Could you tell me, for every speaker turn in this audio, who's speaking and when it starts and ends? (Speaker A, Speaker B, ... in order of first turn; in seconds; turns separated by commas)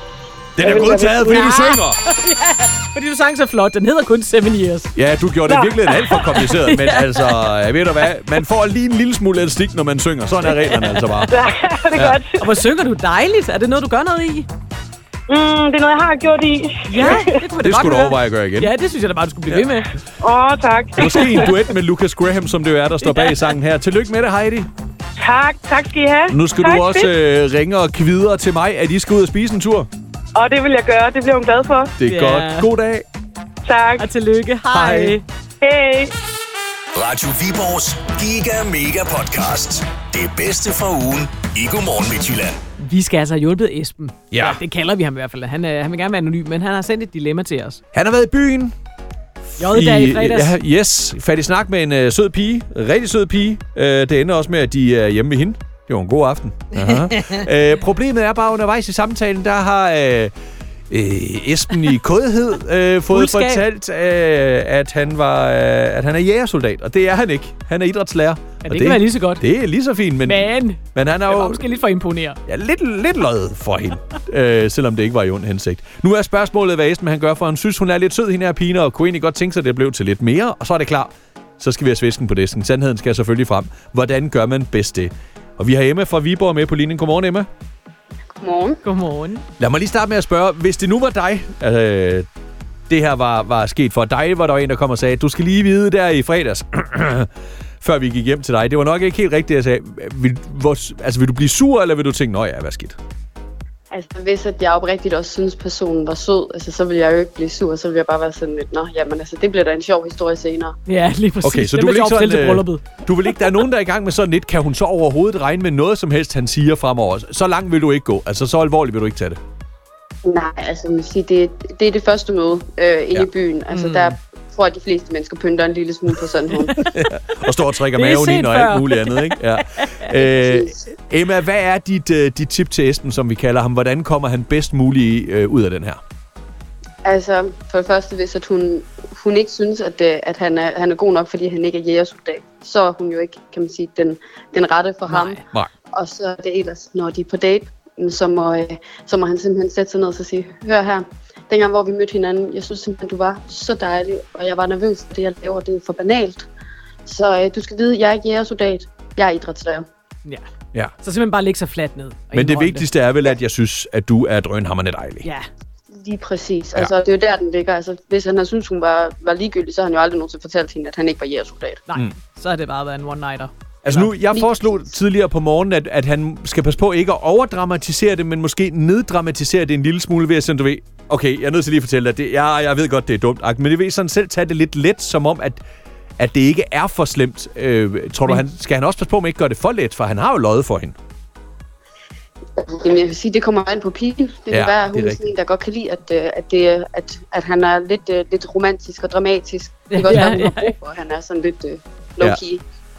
Speaker A: 0.6-2.0, Speaker B: 0.6-1.8, Speaker C: 1.3-4.9, Speaker A: 5.0-11.3, Speaker B: 5.5-5.8, Speaker C: 6.1-7.5, Speaker C: 10.6-11.2, Speaker B: 11.3-12.5, Speaker A: 11.9-12.2, Speaker C: 12.4-14.5, Speaker B: 15.3-17.4, Speaker C: 16.9-19.9, Speaker A: 17.6-18.7, Speaker B: 20.2-21.6, Speaker A: 21.0-24.7, Speaker C: 23.1-23.4, Speaker B: 25.2-27.1, Speaker A: 26.3-29.9, Speaker B: 30.4-31.9, Speaker A: 32.0-33.0, Speaker C: 32.0-32.7, Speaker B: 33.6-34.1, Speaker C: 34.0-35.2, Speaker A: 34.7-35.2, Speaker B: 35.6-36.1, Speaker D: 36.9-42.6, Speaker C: 42.8-47.8, Speaker A: 44.3-44.6, Speaker A: 47.9-48.7, Speaker A: 49.5-60.3, Speaker C: 49.6-50.5, Speaker C: 56.8-57.5, Speaker A: 60.9-71.7, Speaker C: 63.1-63.6, Speaker C: 68.6-69.4, Speaker C: 70.3-72.4, Speaker A: 72.5-87.5, Speaker E: 88.4-88.8, Speaker C: 88.8-89.5, Speaker A: 89.6-92.3, Speaker A: 92.9-97.3, Speaker A: 97.8-103.0, Speaker E: 103.9-110.8, Speaker C: 110.9-113.0, Speaker A: 111.4-119.4, Speaker E: 120.2-126.7, Speaker C: 123.7-124.2, Speaker C: 126.6-127.1, Speaker A: 126.8-136.0, Speaker C: 127.9-130.1, Speaker E: 137.1-145.4, Speaker C: 145.1-145.4, Speaker E: 145.9-156.5, Speaker E: 157.1-159.9, Speaker C: 161.0-162.9, Speaker A: 162.3-165.3, Speaker E: 166.0-171.8, Speaker C: 171.9-174.1, Speaker A: 173.8-185.6, Speaker E: 174.3-174.9, Speaker A: 186.2-190.9, Speaker E: 192.6-202.6, Speaker A: 194.5-195.3, Speaker C: 199.9-200.8